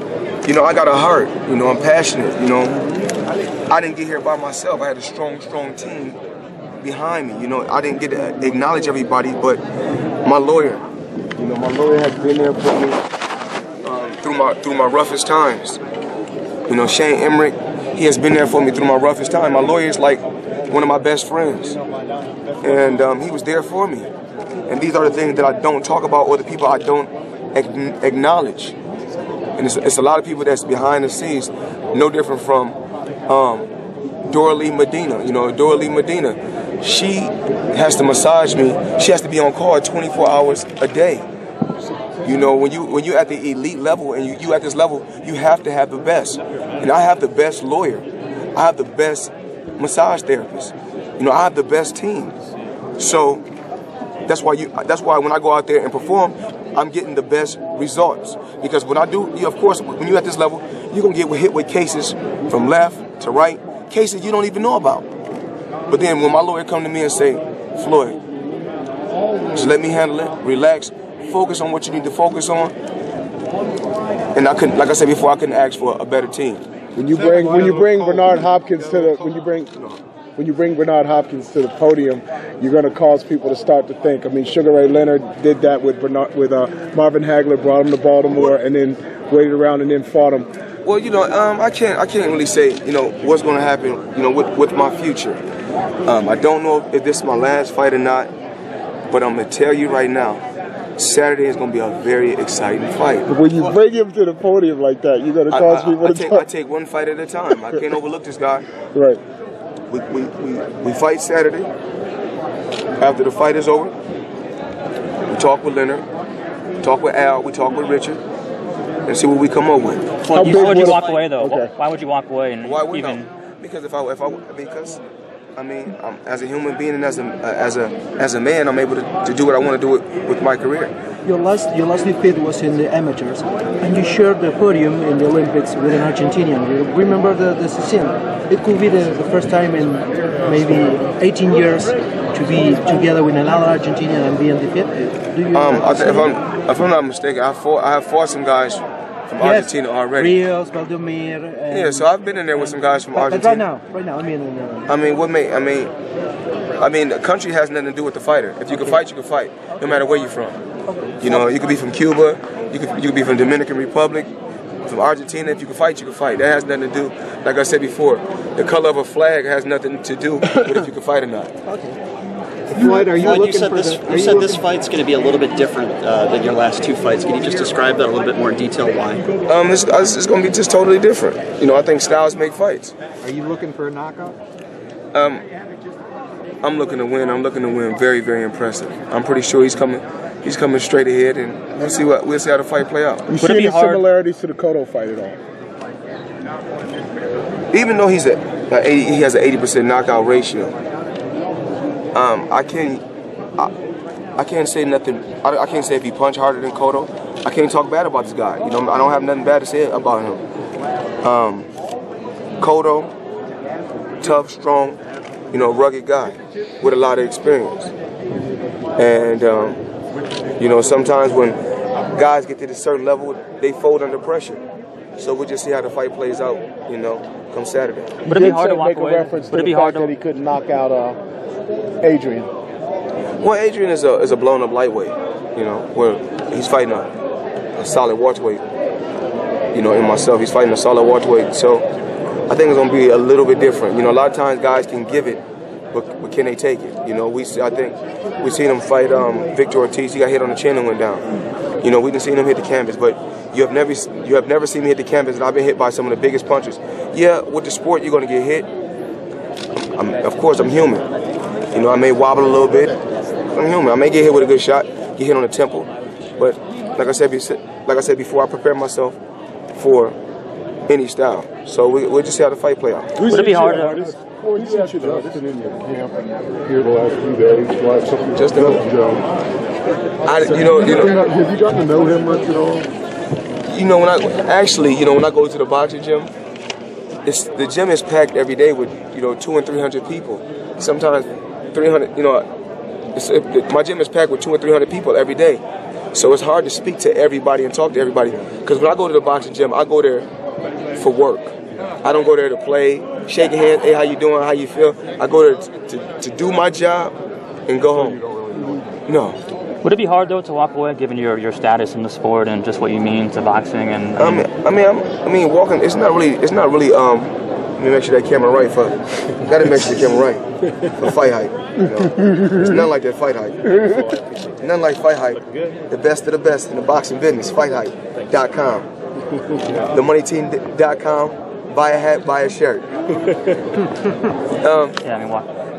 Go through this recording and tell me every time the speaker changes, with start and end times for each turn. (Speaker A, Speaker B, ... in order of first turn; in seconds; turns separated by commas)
Speaker A: 0.4-2.8, Speaker A: 3.7-6.2, Speaker A: 6.8-9.6, Speaker A: 10.2-10.8, Speaker A: 11.4-13.0, Speaker A: 13.8-15.8, Speaker A: 16.7-21.8, Speaker A: 22.6-24.1, Speaker A: 24.7-28.7, Speaker A: 29.6-33.7, Speaker A: 34.3-41.2, Speaker A: 42.2-52.3, Speaker A: 53.0-53.4, Speaker A: 54.2-65.1, Speaker A: 65.9-68.2, Speaker A: 69.5-72.7, Speaker A: 74.3-76.6, Speaker B: 76.9-79.8, Speaker B: 80.4-90.5, Speaker A: 90.8-95.4, Speaker A: 96.0-98.3, Speaker A: 99.1-100.4, Speaker A: 101.0-103.3, Speaker B: 103.3-106.4, Speaker A: 105.5-108.7, Speaker B: 107.6-107.9, Speaker B: 108.9-109.2, Speaker A: 109.9-111.7, Speaker A: 113.0-113.9, Speaker A: 115.3-116.0, Speaker A: 116.8-118.2, Speaker A: 119.0-120.9, Speaker C: 120.2-123.3, Speaker B: 120.3-121.7, Speaker A: 122.6-125.0, Speaker A: 125.5-130.9, Speaker D: 131.2-146.3, Speaker A: 145.5-150.4, Speaker D: 149.4-154.9, Speaker A: 151.7-153.6, Speaker A: 154.9-155.9, Speaker A: 156.8-160.6, Speaker D: 158.7-158.9, Speaker D: 160.9-161.2, Speaker A: 161.2-164.3, Speaker A: 164.8-171.5, Speaker D: 171.6-172.0, Speaker D: 172.7-174.6, Speaker E: 172.8-179.2, Speaker A: 179.5-182.9, Speaker D: 183.3-184.3, Speaker A: 185.1-185.4, Speaker A: 186.6-193.3, Speaker B: 193.2-195.4, Speaker C: 193.3-194.0, Speaker A: 197.7-200.7, Speaker A: 202.1-203.0, Speaker A: 204.4-210.4, Speaker A: 211.2-211.7, Speaker A: 212.6-213.1, Speaker A: 214.2-215.0, Speaker A: 215.5-217.9, Speaker A: 219.0-219.8, Speaker A: 220.6-221.6, Speaker A: 222.1-224.6, Speaker A: 225.2-228.2, Speaker C: 228.2-230.1, Speaker B: 228.2-231.2, Speaker B: 232.0-232.5, Speaker A: 233.4-237.1, Speaker A: 237.8-238.6, Speaker A: 239.7-241.8, Speaker A: 242.5-251.2, Speaker A: 251.8-258.7, Speaker A: 259.9-261.1, Speaker A: 261.7-263.0, Speaker A: 263.5-269.2, Speaker A: 269.7-270.2, Speaker A: 270.9-273.2, Speaker F: 273.2-276.1, Speaker C: 273.2-274.0, Speaker B: 273.3-275.4, Speaker F: 276.6-279.2, Speaker A: 278.3-278.9, Speaker A: 280.2-281.2, Speaker F: 280.5-282.9, Speaker A: 283.6-286.3, Speaker A: 287.2-292.5, Speaker A: 293.1-295.6, Speaker A: 296.1-300.3, Speaker A: 300.9-307.1, Speaker A: 307.6-308.2, Speaker A: 309.1-309.4, Speaker C: 309.8-314.5, Speaker A: 314.1-320.4, Speaker A: 320.9-324.0, Speaker A: 324.6-328.9, Speaker A: 329.9-332.9, Speaker A: 334.6-335.0, Speaker C: 335.0-335.5